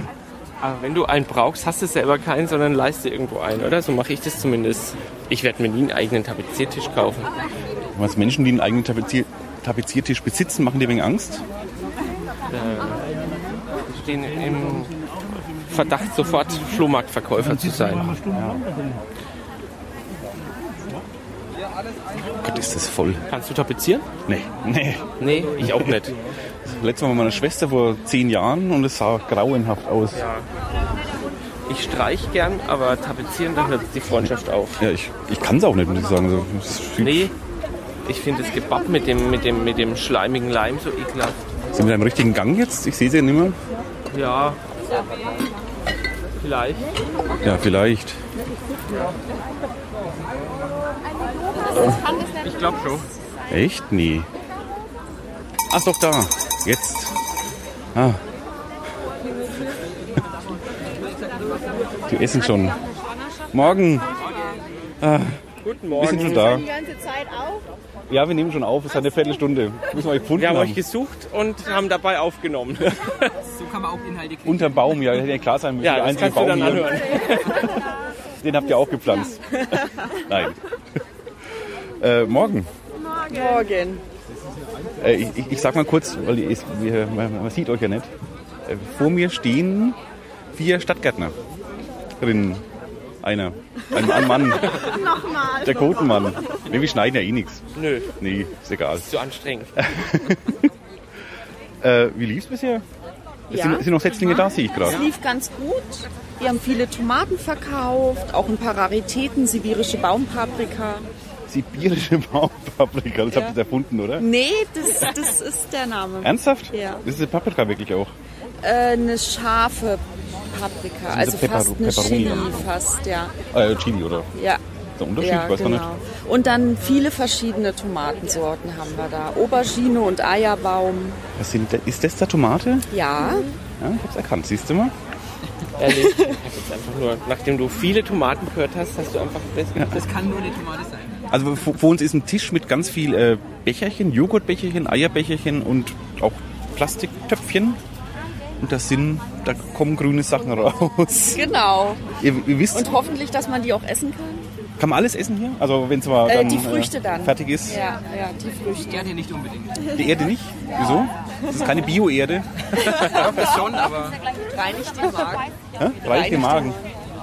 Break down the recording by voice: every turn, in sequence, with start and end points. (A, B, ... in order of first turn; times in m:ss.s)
0:00.6-0:07.3 A
0:08.0-0:11.4 B
0:12.5-0:13.0 A
0:13.9-0:14.9 A
0:15.7-0:18.2 A
0:18.3-0:18.7 B
0:22.4-0:23.2 B
0:23.3-0:24.1 A
0:24.3-0:26.0 B
0:25.2-0:26.2 A
0:26.6-0:30.2 B
0:30.1-0:30.5 A
0:31.7-0:34.8 A
0:34.8-0:37.3 B
0:37.0-0:37.3 A
0:38.1-0:41.4 A
0:41.7-0:43.6 B
0:44.1-0:44.6 A
0:46.4-0:46.9 A
0:47.4-0:48.2 B
0:52.4-0:53.1 A
0:53.5-0:54.3 B
0:55.7-0:57.2 B
0:58.0-0:58.2 B
1:02.1-1:02.8 B
1:03.5-1:04.1 B
1:05.0-1:05.4 B
1:05.6-1:06.6 A
1:06.0-1:06.7 B
1:06.4-1:07.6 C
1:08.1-1:10.8 B
1:10.4-1:13.4 A
1:13.4-1:15.1 D
1:14.4-1:17.5 B
1:15.8-1:17.7 A
1:18.4-1:20.6 B
1:22.0-1:22.7 B
1:23.3-1:24.0 E
1:25.0-1:28.1 B
1:28.6-1:30.0 B
1:30.5-1:31.4 B
1:32.2-1:32.6 B
1:33.2-1:34.9 B
1:34.8-1:35.7 C
1:35.6-1:39.1 B
1:37.8-1:38.1 A
1:39.0-1:39.8 A
1:39.8-1:40.7 B
1:41.8-1:42.8 B
1:43.5-1:45.1 B
1:43.5-1:51.1 E
1:51.5-1:54.3 B
1:54.2-1:57.0 E
1:56.2-1:58.1 B
1:58.6-2:03.4 E
2:01.1-2:02.7 B
2:03.5-2:04.3 B
2:04.3-2:04.6 E
2:05.0-2:05.9 B
2:05.2-2:11.2 E
2:11.4-2:12.9 B
2:12.9-2:13.5 E
2:13.8-2:14.9 B
2:15.8-2:20.0 A
2:19.8-2:20.0 B
2:19.9-2:21.2 D
2:21.3-2:27.8 B
2:28.6-2:31.4 B
2:31.3-2:32.0 E
2:32.2-2:32.9 B
2:32.7-2:34.5 E
2:34.8-2:37.8 B
2:36.2-2:39.1 E
2:38.9-2:39.9 D
2:39.9-2:42.5 B
2:42.9-2:44.2 D
2:43.2-2:43.5 E
2:44.5-2:45.5 E
2:45.8-2:46.8 B
2:46.0-2:46.9 E